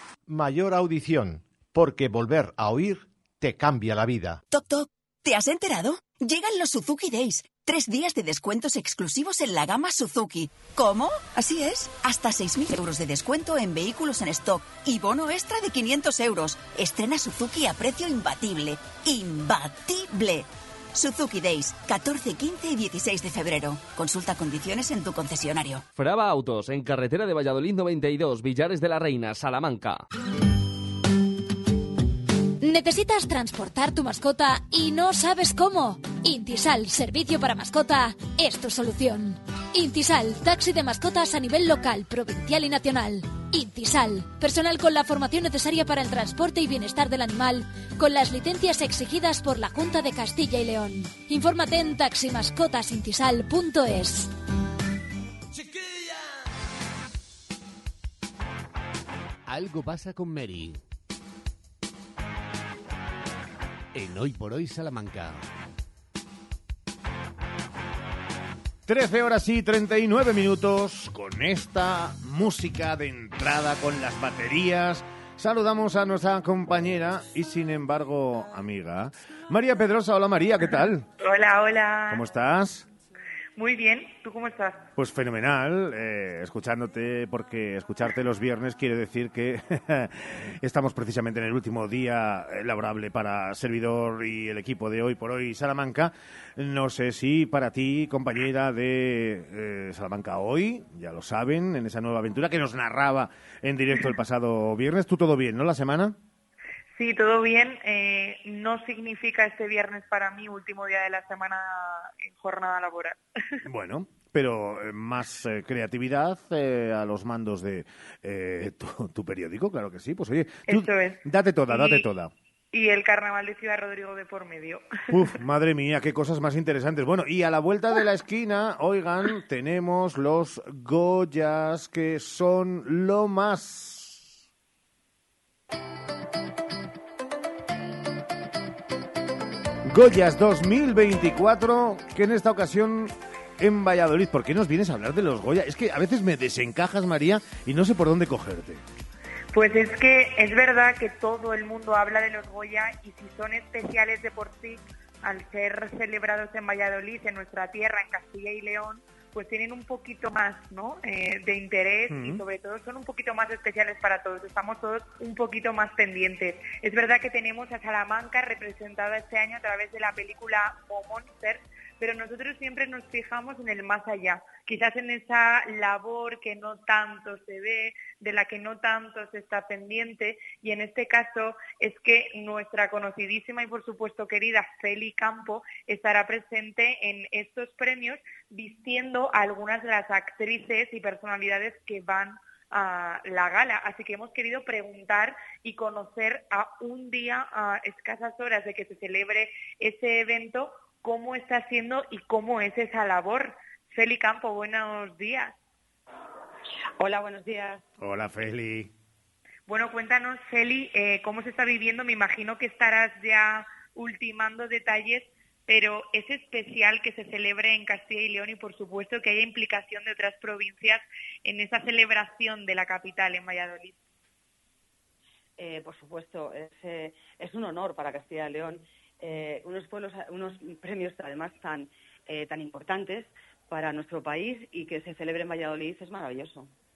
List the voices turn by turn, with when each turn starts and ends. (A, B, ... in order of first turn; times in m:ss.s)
0:00.3-0:04.4 A
0:04.6-0:20.4 B
0:21.0-0:25.8 B
0:26.0-0:30.0 C
0:32.6-0:54.3 D
0:59.5-1:00.8 E
1:03.9-1:05.5 E
1:08.9-1:21.1 F
1:21.2-1:22.2 G
1:22.1-1:22.9 F
1:23.6-1:24.9 G
1:25.0-1:46.2 F
1:46.9-1:53.2 G
1:53.7-2:02.3 F
2:00.7-2:02.1 G
2:02.7-2:05.0 G
2:05.1-2:14.2 F
2:19.9-2:28.8 F
2:29.5-3:25.6 G
2:42.1-2:42.4 F
3:27.0-3:27.8 H
3:28.0-3:28.9 F
3:29.7-3:44.0 G
3:45.6-3:56.7 H